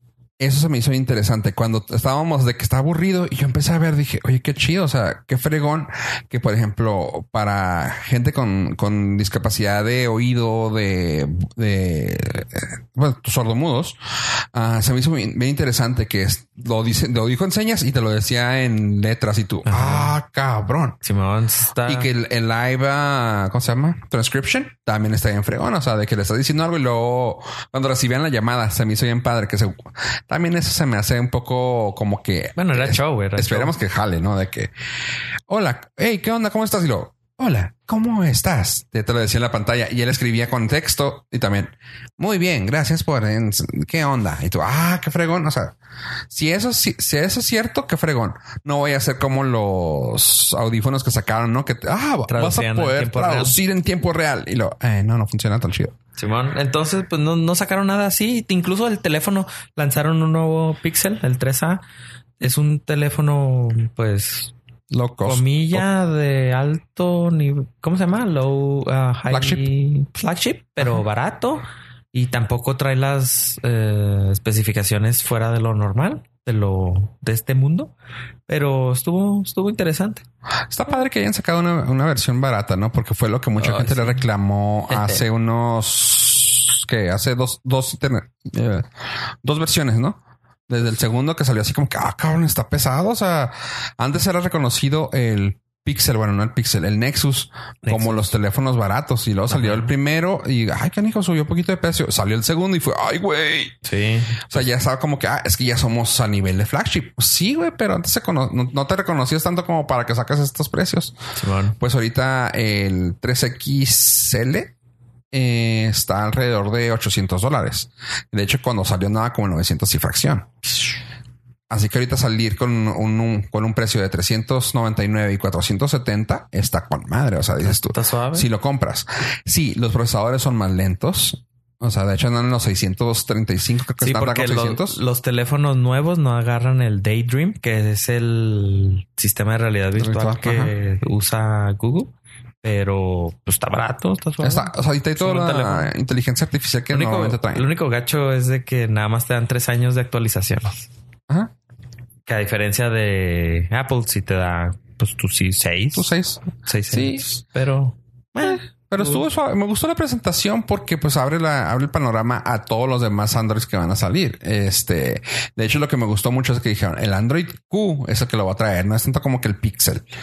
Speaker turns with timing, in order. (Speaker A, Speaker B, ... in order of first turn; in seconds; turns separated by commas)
Speaker A: 0.4-21.0, Speaker B: 19.6-20.1, Speaker B: 21.0-22.1, Speaker A: 21.8-34.7, Speaker B: 32.5-33.7, Speaker A: 35.5-45.7, Speaker A: 46.3-55.9, Speaker B: 52.3-53.6, Speaker B: 56.2-61.8, Speaker B: 62.4-64.5, Speaker A: 64.9-65.8, Speaker B: 65.2-77.9, Speaker A: 69.3-69.6, Speaker B: 78.5-80.2, Speaker A: 80.7-88.9, Speaker B: 83.6-84.2, Speaker B: 84.9-85.2, Speaker A: 89.4-103.8, Speaker B: 97.8-98.3, Speaker B: 99.5-99.9, Speaker B: 103.8-104.6, Speaker A: 104.4-111.2, Speaker B: 111.3-111.8, Speaker A: 111.8-114.7, Speaker A: 115.3-120.5, Speaker A: 121.7-135.0, Speaker B: 127.6-128.5, Speaker B: 134.0-145.9, Speaker A: 140.0-140.7, Speaker A: 144.4-147.7, Speaker B: 146.9-150.9, Speaker B: 152.2-156.1, Speaker A: 155.9-157.2, Speaker B: 156.6-159.2, Speaker A: 158.4-170.1